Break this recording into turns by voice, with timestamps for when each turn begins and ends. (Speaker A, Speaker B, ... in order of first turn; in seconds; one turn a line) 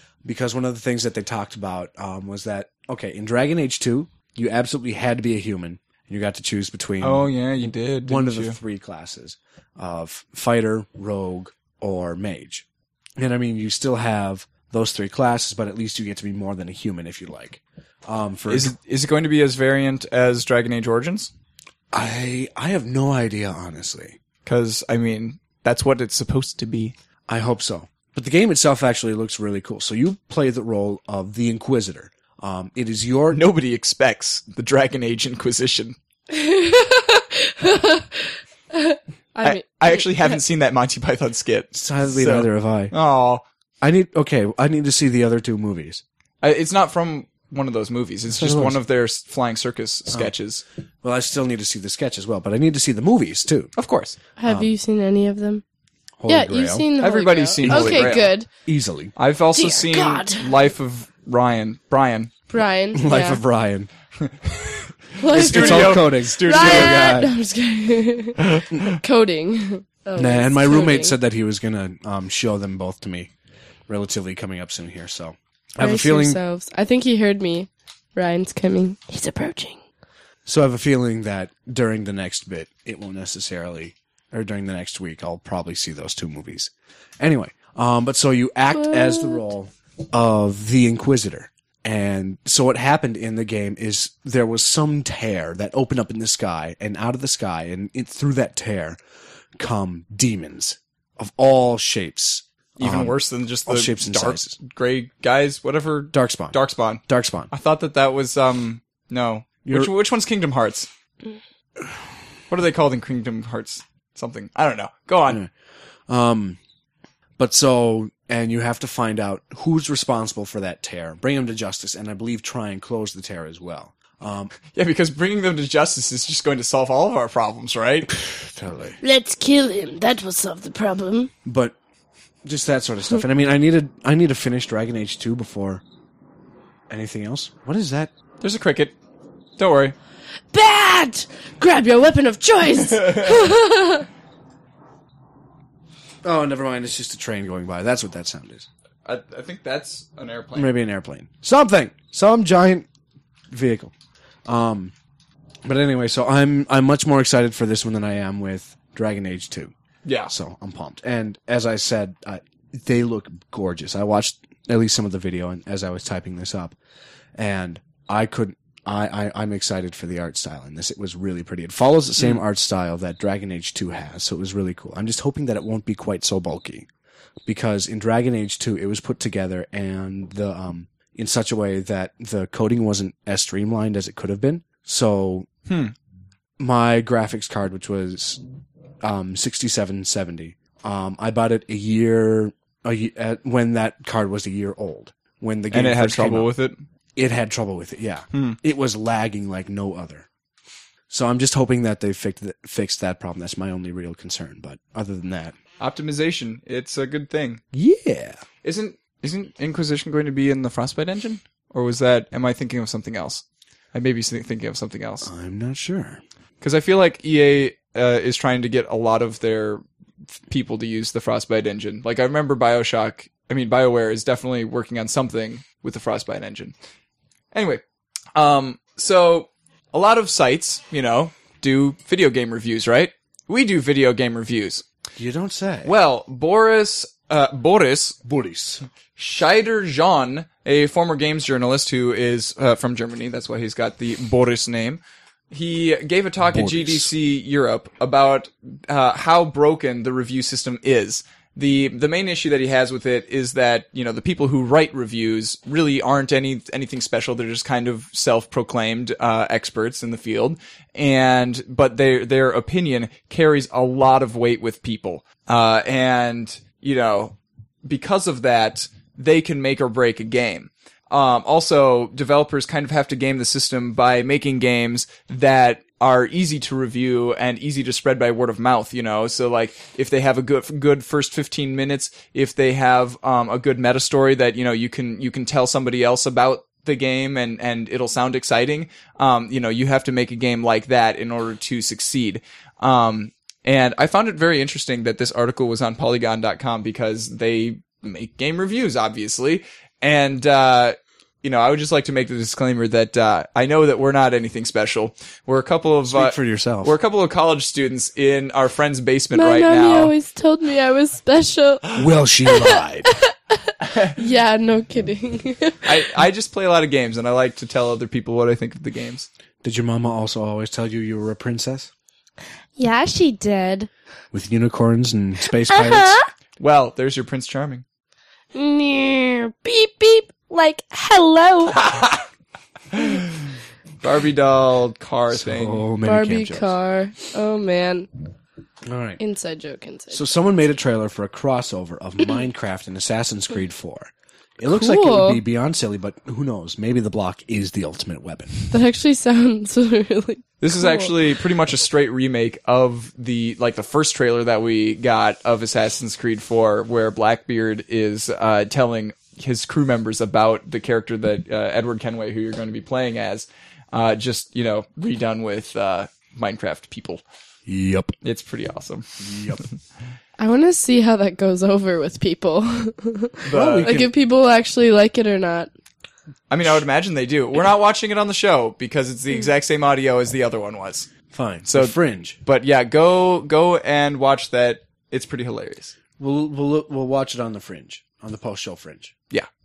Speaker A: 0.2-12.7
Speaker B: 7.0-8.6
Speaker A: 13.2-18.7
Speaker B: 18.5-21.3
Speaker A: 21.9-24.2
Speaker B: 24.4-26.9
Speaker A: 27.3-33.5
Speaker B: 33.3-35.9
Speaker C: 36.3-40.4
Speaker B: 39.4-43.4
Speaker A: 41.7-42.9
Speaker A: 43.8-46.0
Speaker B: 46.4-50.6
Speaker A: 48.3-48.8
Speaker A: 51.0-53.7
Speaker B: 53.8-54.2
Speaker C: 54.4-55.6
Speaker A: 54.4-54.7
Speaker A: 56.2-56.9
Speaker C: 56.3-58.5
Speaker B: 57.0-58.3
Speaker A: 57.6-59.1
Speaker B: 59.1-62.3
Speaker C: 59.5-60.5
Speaker C: 62.5-63.4
Speaker A: 62.9-63.9
Speaker B: 64.2-67.1
Speaker C: 65.2-71.2
Speaker A: 65.3-67.3
Speaker A: 70.2-73.3
Speaker A: 73.9-76.4
Speaker C: 75.8-79.8
Speaker A: 80.5-99.0
Speaker C: 88.7-89.4
Speaker A: 99.5-104.6
Speaker B: 102.8-110.9
Speaker A: 106.1-106.6
Speaker A: 107.1-107.5
Speaker A: 109.6-109.9
Speaker B: 112.5-115.4
Speaker A: 116.1-116.6
Speaker A: 117.4-124.5
Speaker B: 124.7-128.1
Speaker A: 128.2-129.0
Speaker C: 129.0-131.3
Speaker A: 131.4-131.7
Speaker A: 132.4-135.8
Speaker A: 136.9-138.1
Speaker B: 138.4-138.9
Speaker B: 139.6-139.9
Speaker C: 140.5-144.1
Speaker B: 142.8-143.5
Speaker A: 146.2-148.7
Speaker B: 149.0-150.7
Speaker A: 150.5-152.9
Speaker A: 153.5-153.9
Speaker A: 154.4-154.9
Speaker A: 155.6-159.7
Speaker B: 160.0-160.3
Speaker A: 160.3-166.7
Speaker A: 167.3-176.9
Speaker A: 177.5-185.5
Speaker B: 185.7-185.9
Speaker A: 186.6-188.4
Speaker A: 189.0-196.5
Speaker B: 195.7-196.8
Speaker A: 197.2-200.3
Speaker B: 198.3-198.6
Speaker A: 201.1-205.6
Speaker B: 205.8-207.6
Speaker A: 207.7-208.4
Speaker B: 208.6-215.3
Speaker A: 215.2-216.2
Speaker B: 216.6-219.8
Speaker B: 220.5-226.7
Speaker B: 227.5-227.8
Speaker B: 228.3-234.8
Speaker A: 235.2-235.9
Speaker B: 235.8-238.2
Speaker A: 238.2-238.8
Speaker B: 239.2-310.1
Speaker A: 246.5-247.1
Speaker A: 306.0-306.9
Speaker C: 309.3-316.1
Speaker A: 311.9-313.1
Speaker B: 313.8-314.2
Speaker B: 315.8-319.3
Speaker A: 319.6-321.9
Speaker C: 322.8-323.9
Speaker A: 324.3-326.2
Speaker C: 325.7-326.3
Speaker B: 326.6-327.8
Speaker C: 328.5-332.1
Speaker B: 331.8-332.1
Speaker B: 332.9-333.5
Speaker B: 334.0-335.8
Speaker A: 335.3-336.7
Speaker C: 336.0-338.1
Speaker A: 338.9-339.2
Speaker C: 339.2-340.2
Speaker A: 340.1-348.7
Speaker C: 344.7-345.4
Speaker C: 348.7-351.1
Speaker B: 350.6-367.2
Speaker A: 367.7-368.1
Speaker B: 368.2-369.7
Speaker A: 369.2-369.6
Speaker C: 370.4-375.7
Speaker B: 373.5-373.9
Speaker A: 373.5-374.1
Speaker B: 376.5-381.1
Speaker A: 381.3-382.4
Speaker B: 381.7-385.9
Speaker A: 386.2-389.1